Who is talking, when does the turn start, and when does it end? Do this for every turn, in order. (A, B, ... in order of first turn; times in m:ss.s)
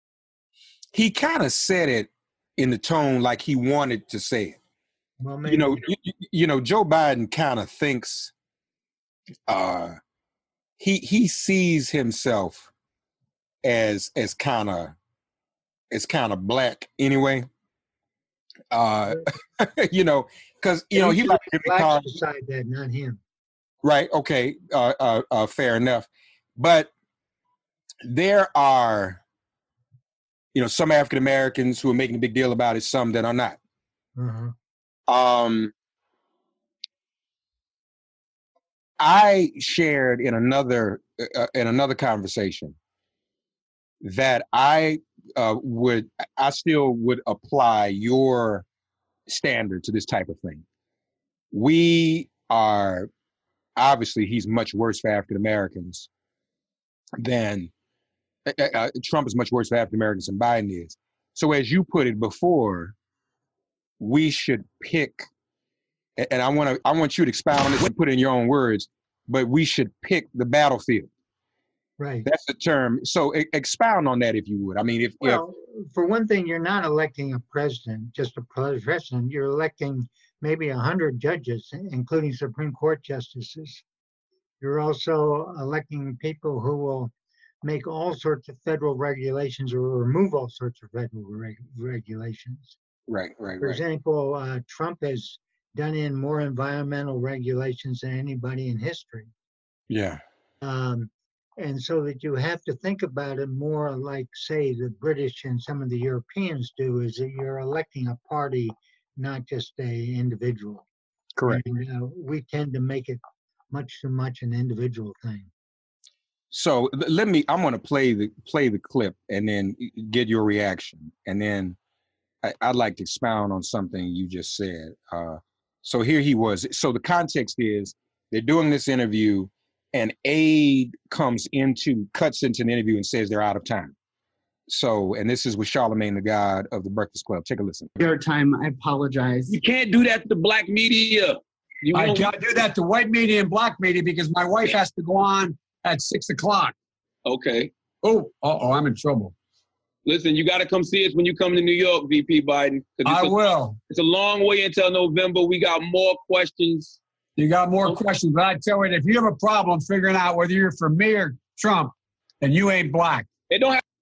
0:00.9-0:04.6 A
0:05.2-0:05.8 B
0:05.4-0:08.3 A
0:09.5-0:10.0 A
0:10.8-0:12.7 A
0:13.6-0:15.0 A
0:15.9-0:17.5 A
0:18.7-0:22.0 A
0:20.9-0:23.2 B
0:23.8-0:26.9 A
0:28.0-0:29.2 A
0:30.5-0:33.6 A
0:34.2-0:34.5 B
0:35.1-0:35.7 A
0:39.0-0:42.8 A
0:44.0-0:48.6 A
0:49.3-0:50.6 A
0:51.5-0:53.1 A
0:53.8-0:56.1 A
0:57.2-0:57.7 A
0:58.4-1:02.9 A
1:04.0-1:05.2 A
1:06.2-1:11.1 A
1:12.0-1:12.3 B
1:12.2-1:15.4 A
1:15.2-1:23.8 B
1:24.6-1:27.1 B
1:27.6-1:32.8 B
1:33.1-1:33.8 A
1:33.6-1:39.3 B
1:39.9-1:40.2 A
1:40.6-1:50.8 B
1:51.3-1:51.6 A
1:51.5-1:53.2 B
1:53.7-1:55.5 B
1:56.5-2:01.8 A
2:02.4-2:13.9 A
2:14.7-2:17.9 A
2:18.0-2:19.6 C
2:19.5-2:21.4 D
2:21.9-2:26.7 C
2:27.3-2:27.7 D
2:28.0-2:29.3 C
2:30.0-2:33.1 D
2:33.0-2:33.8 C
2:33.9-2:37.0 D
2:37.4-2:43.3 C